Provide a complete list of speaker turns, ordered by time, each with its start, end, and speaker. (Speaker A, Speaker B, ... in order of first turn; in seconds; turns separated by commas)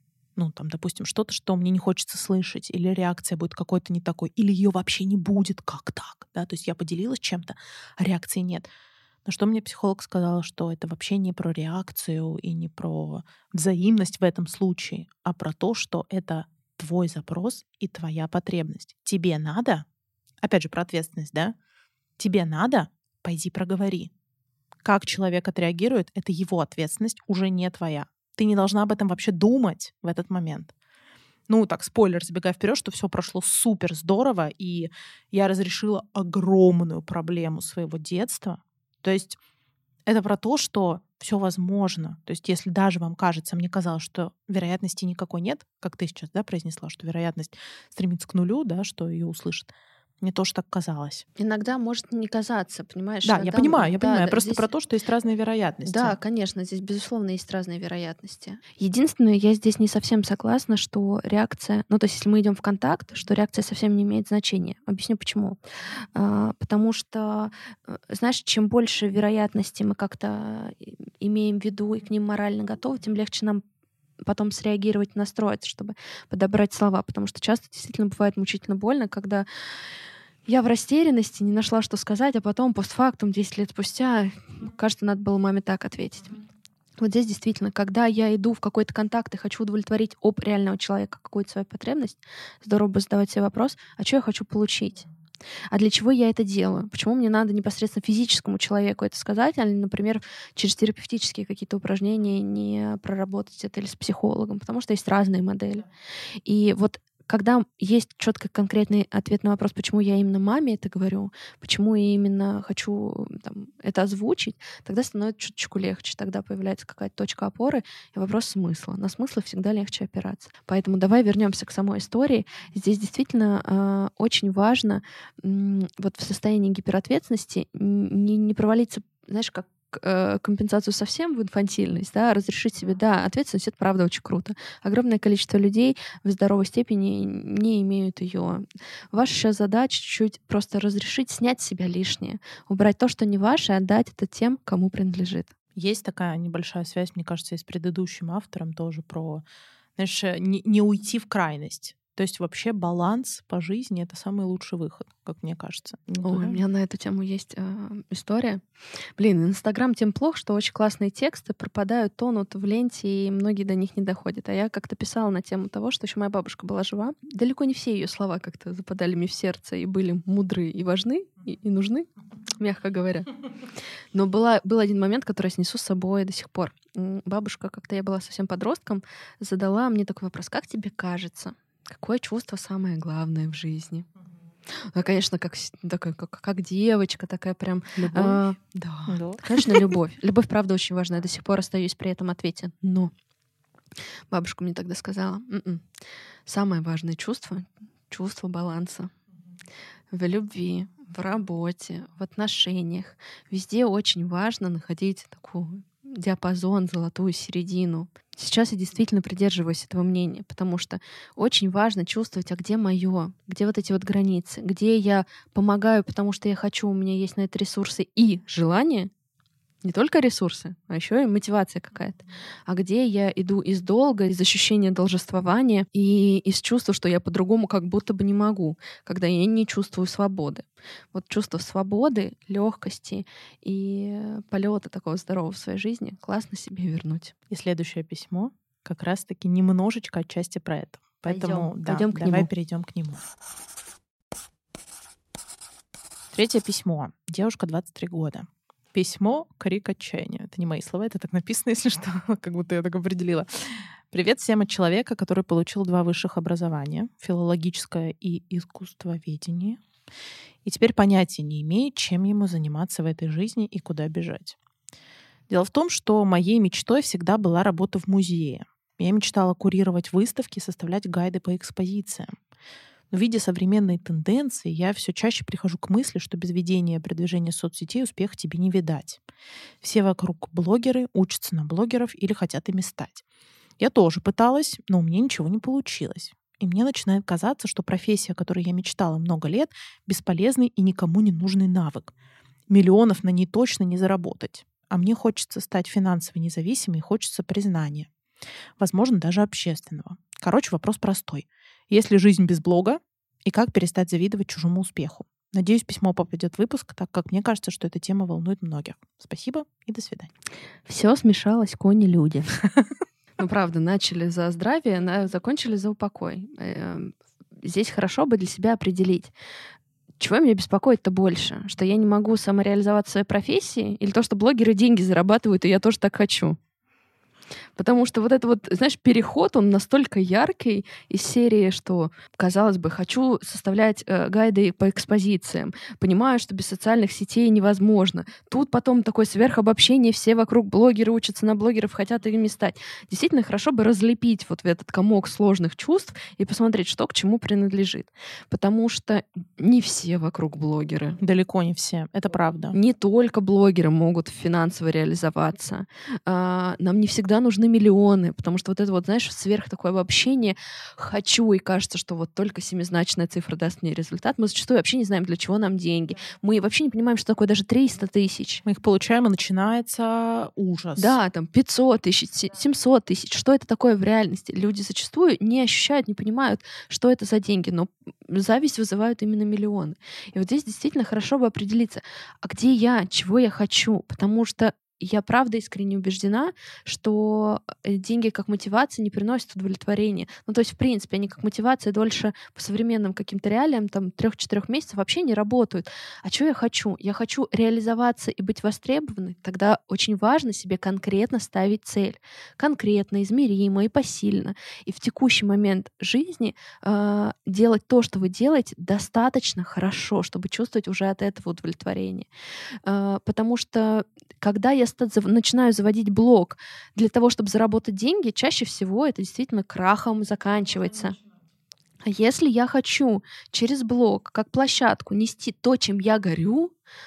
Speaker A: 0.4-8.7, Speaker A: 9.2-19.9, Speaker A: 20.4-21.6, Speaker A: 22.2-24.1, Speaker A: 24.8-30.7, Speaker A: 31.5-39.4, Speaker A: 40.1-51.2, Speaker B: 51.4-54.7, Speaker A: 53.2-56.2, Speaker B: 55.9-73.6, Speaker B: 74.2-79.5, Speaker B: 80.5-86.4, Speaker B: 87.0-95.1, Speaker B: 95.7-105.9, Speaker B: 106.4-145.5, Speaker A: 145.8-149.4, Speaker A: 150.0-156.6, Speaker B: 156.2-158.6, Speaker B: 159.2-173.3, Speaker B: 174.1-184.1, Speaker B: 184.7-193.1, Speaker A: 188.0-188.5, Speaker A: 189.1-189.9, Speaker B: 194.3-195.9, Speaker B: 196.5-199.1, Speaker B: 200.1-219.1, Speaker B: 219.8-237.3, Speaker A: 237.5-243.2, Speaker B: 241.3-242.5, Speaker A: 246.3-253.5, Speaker A: 254.1-259.8, Speaker A: 260.6-264.6, Speaker A: 265.5-272.4, Speaker A: 273.1-279.2, Speaker A: 279.8-283.2, Speaker A: 283.8-292.1, Speaker A: 292.7-298.1, Speaker A: 298.8-310.3, Speaker B: 310.9-312.6, Speaker B: 313.4-319.3, Speaker B: 320.2-326.6, Speaker B: 327.8-351.2, Speaker A: 351.2-352.8, Speaker B: 352.7-368.6, Speaker A: 368.6-371.2, Speaker B: 371.0-412.3, Speaker B: 412.9-421.2, Speaker B: 422.0-426.7